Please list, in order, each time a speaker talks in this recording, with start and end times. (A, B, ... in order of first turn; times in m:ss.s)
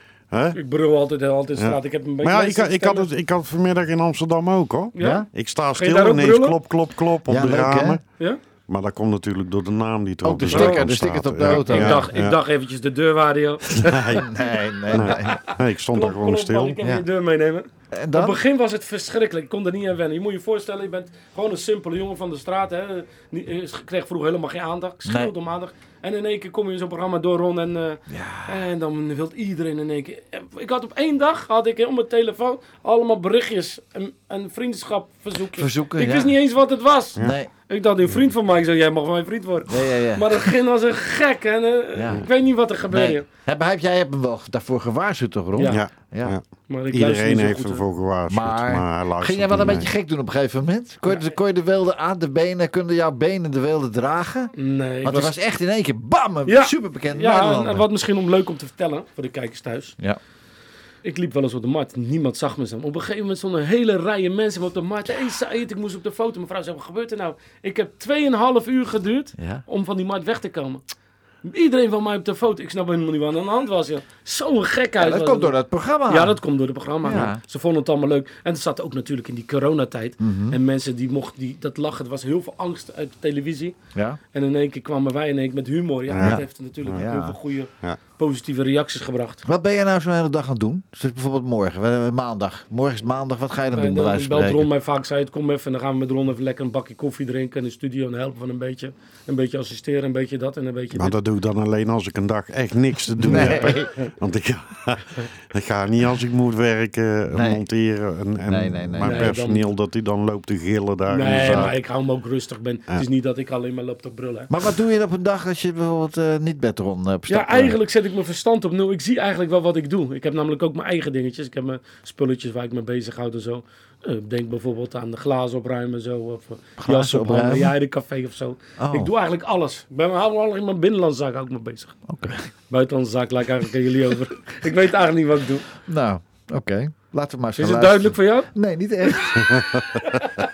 0:00.3-0:00.6 A
0:00.5-0:03.1 B
0:01.6-0:08.0 A
0:04.9-0:05.2 B
0:05.0-0:05.3 C
0:05.8-0:06.6 B
0:07.3-0:08.0 C
0:08.7-0:12.4 A
0:10.2-0:12.0 C
0:10.5-0:10.8 B
0:11.5-0:14.0 B
0:13.8-0:14.3 A
0:14.2-0:15.4 C
0:14.9-0:16.8 A
0:15.0-0:43.2 B
0:17.9-0:18.4 C
0:25.0-0:25.3 C
0:28.1-0:28.6 C
0:35.5-0:36.3 C
0:37.2-0:37.5 C
0:39.7-0:40.4 C
0:41.9-0:42.3 C
0:42.9-0:46.4 C
0:45.6-0:45.8 B
0:45.7-0:49.9 A
0:46.7-0:47.8 B
0:48.3-0:57.8 C
0:54.6-0:55.3 B
0:56.4-0:59.9 B
1:01.0-1:10.8 B
1:09.4-1:09.6 C
1:11.4-1:15.5 B
1:15.0-1:16.4 C
1:16.1-1:23.7 B
1:17.0-1:17.4 C
1:20.2-1:20.6 C
1:23.9-1:24.2 C
1:24.3-1:29.4 B
1:26.1-1:27.0 A
1:26.2-1:27.4 C
1:29.4-1:34.7 C
1:33.7-1:41.1 B
1:40.9-1:51.7 A
1:43.2-1:43.9 C
1:43.3-1:43.7 B
1:47.3-1:47.6 C
1:48.5-1:49.3 C
1:49.0-1:49.6 B
1:51.1-1:54.5 B
1:51.4-1:51.7 C
1:54.5-1:57.8 C
1:57.3-2:11.9 B
2:06.8-2:07.7 C
2:08.8-2:09.1 C
2:12.1-2:12.5 C
2:12.7-2:15.7 B
2:15.8-2:19.8 C
2:17.6-2:18.5 B
2:19.4-2:19.8 A
2:20.0-2:20.3 B